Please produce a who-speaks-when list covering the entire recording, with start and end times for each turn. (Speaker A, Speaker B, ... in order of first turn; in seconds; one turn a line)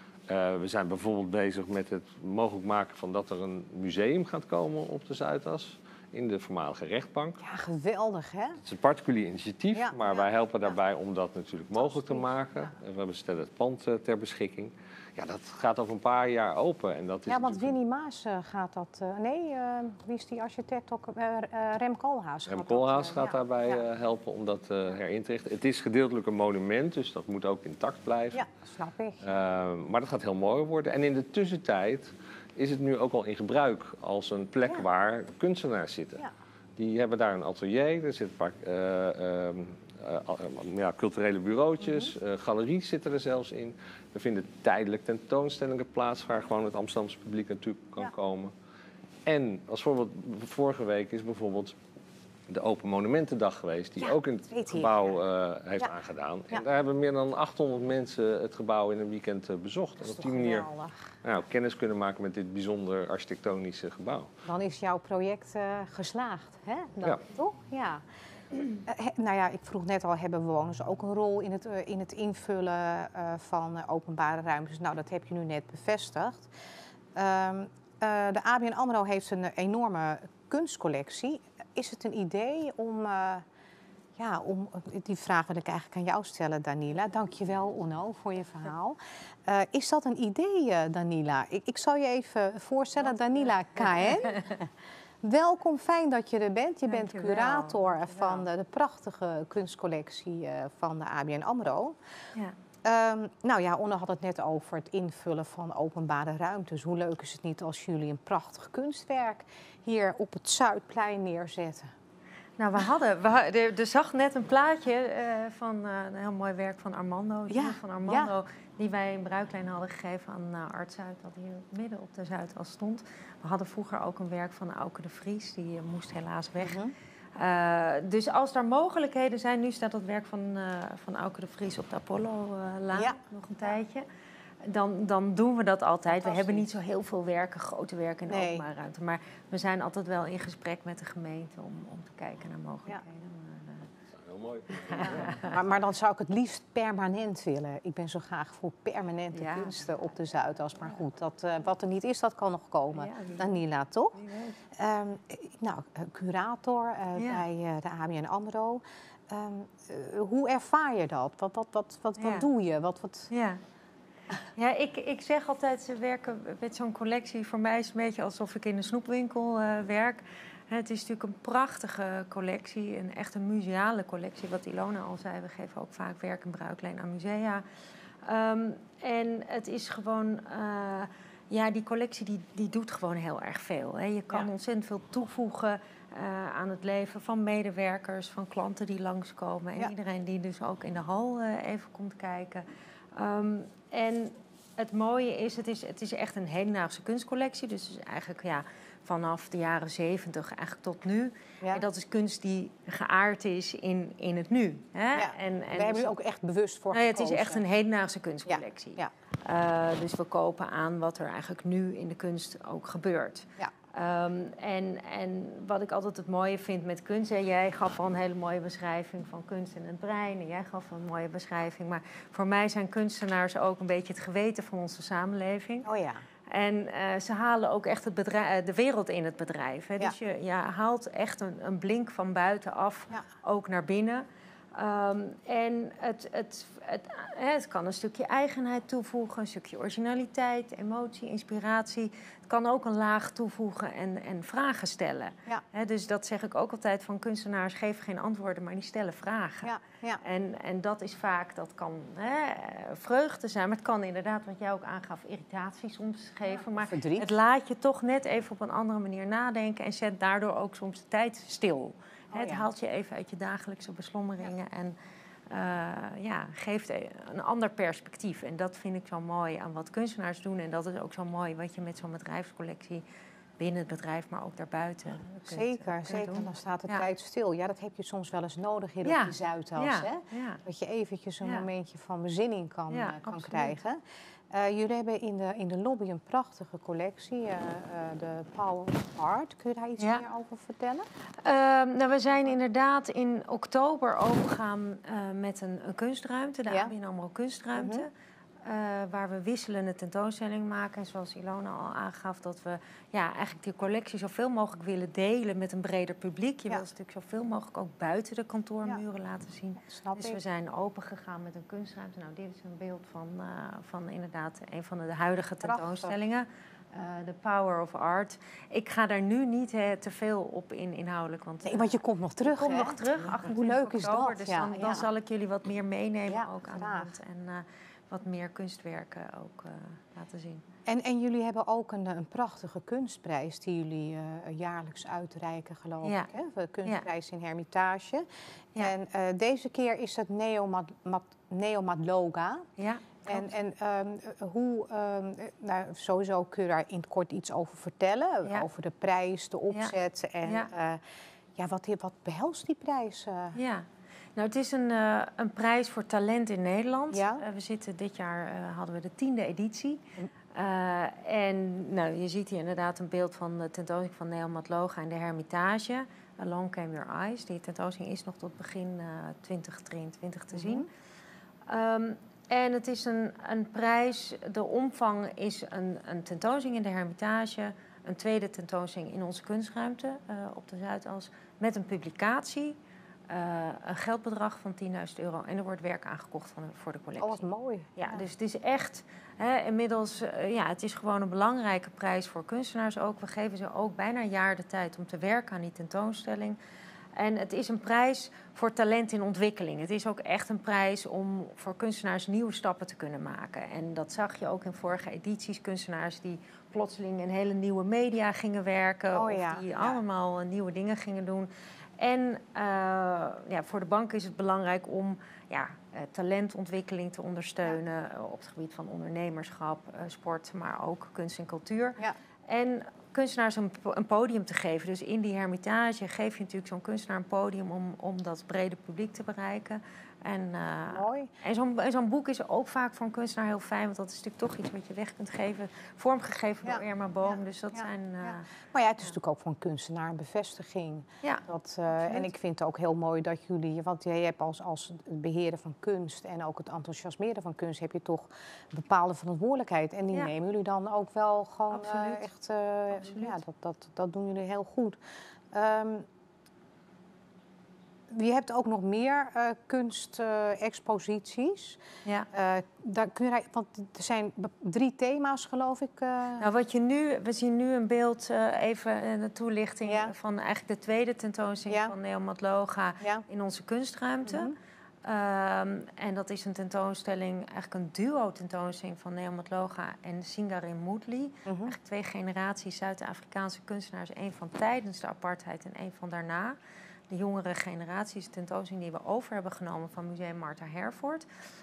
Speaker A: 0.3-7.4
Speaker B: 7.4-8.6
Speaker A: 8.6-17.7
Speaker B: 9.7-10.3
Speaker B: 11.9-12.2
Speaker B: 17.3-23.9
Speaker A: 22.5-28.4
Speaker B: 28.3-29.3
Speaker A: 29.2-36.2
Speaker A: 36.8-48.5
Speaker B: 41.8-42.1
Speaker A: 49.2-51.8
Speaker A: 52.5-60.7
Speaker B: 54.0-55.1
Speaker B: 60.0-61.1
Speaker A: 61.2-64.3
Speaker B: 64.4-68.0
Speaker B: 68.8-76.5
Speaker B: 77.1-83.5
Speaker B: 84.2-94.6
Speaker C: 93.8-94.5
Speaker B: 95.2-102.0
Speaker C: 96.9-98.5
Speaker B: 102.8-111.9
Speaker C: 112.6-126.8
Speaker B: 117.5-118.3
Speaker B: 126.6-126.9
Speaker C: 127.3-134.0
Speaker B: 132.9-133.7
Speaker C: 134.6-143.9
Speaker B: 136.1-136.7
Speaker B: 138.3-138.7
Speaker A: 144.2-145.6
Speaker C: 144.9-145.5
Speaker B: 145.0-154.2
Speaker C: 149.3-149.8
Speaker C: 152.9-153.6
Speaker C: 154.1-154.6
Speaker B: 154.7-163.3
Speaker C: 157.1-157.4
Speaker C: 162.2-162.5
Speaker C: 163.3-163.6
Speaker C: 164.5-177.6
Speaker C: 178.2-206.1
Speaker B: 205.2-207.6
Speaker C: 206.9-225.9
Speaker B: 208.4-209.1
Speaker B: 225.8-226.2
Speaker C: 226.5-264.9
Speaker B: 249.6-250.2
Speaker B: 256.5-257.3
Speaker B: 262.3-262.6
Speaker C: 265.5-273.0
Speaker C: 273.6-277.1
Speaker B: 275.5-291.1
Speaker C: 279.0-280.6
Speaker C: 282.9-283.8
Speaker C: 290.0-290.2
Speaker C: 291.4-298.1
Speaker B: 297.8-298.1
Speaker C: 298.6-330.6
Speaker B: 309.8-310.4
Speaker B: 315.6-316.1
Speaker B: 321.6-325.1
Speaker B: 326.3-327.1
Speaker B: 330.9-342.6
Speaker C: 336.0-336.3
Speaker C: 342.8-343.5
Speaker B: 343.2-351.0
Speaker C: 350.4-350.7
Speaker B: 351.6-353.6
Speaker C: 353.5-353.8
Speaker C: 354.4-360.0
Speaker B: 357.1-357.4
Speaker C: 360.5-370.9
Speaker B: 370.5-370.9
Speaker C: 371.7-382.8
Speaker C: 383.3-387.4
Speaker B: 387.2-388.2
Speaker C: 387.9-396.6
Speaker C: 397.1-438.5
Speaker B: 409.1-410.0
Speaker B: 430.9-431.3
Speaker B: 436.6-455.0
Speaker C: 441.2-442.3
Speaker C: 451.7-452.3
Speaker C: 452.9-453.4
Speaker B: 455.5-456.1
Speaker B: 458.1-461.8
Speaker B: 462.3-466.4
Speaker C: 466.4-474.5
Speaker B: 469.9-470.1
Speaker B: 471.7-471.9
Speaker B: 474.2-474.5
Speaker C: 475.0-486.6
Speaker B: 481.4-481.7
Speaker C: 487.1-491.2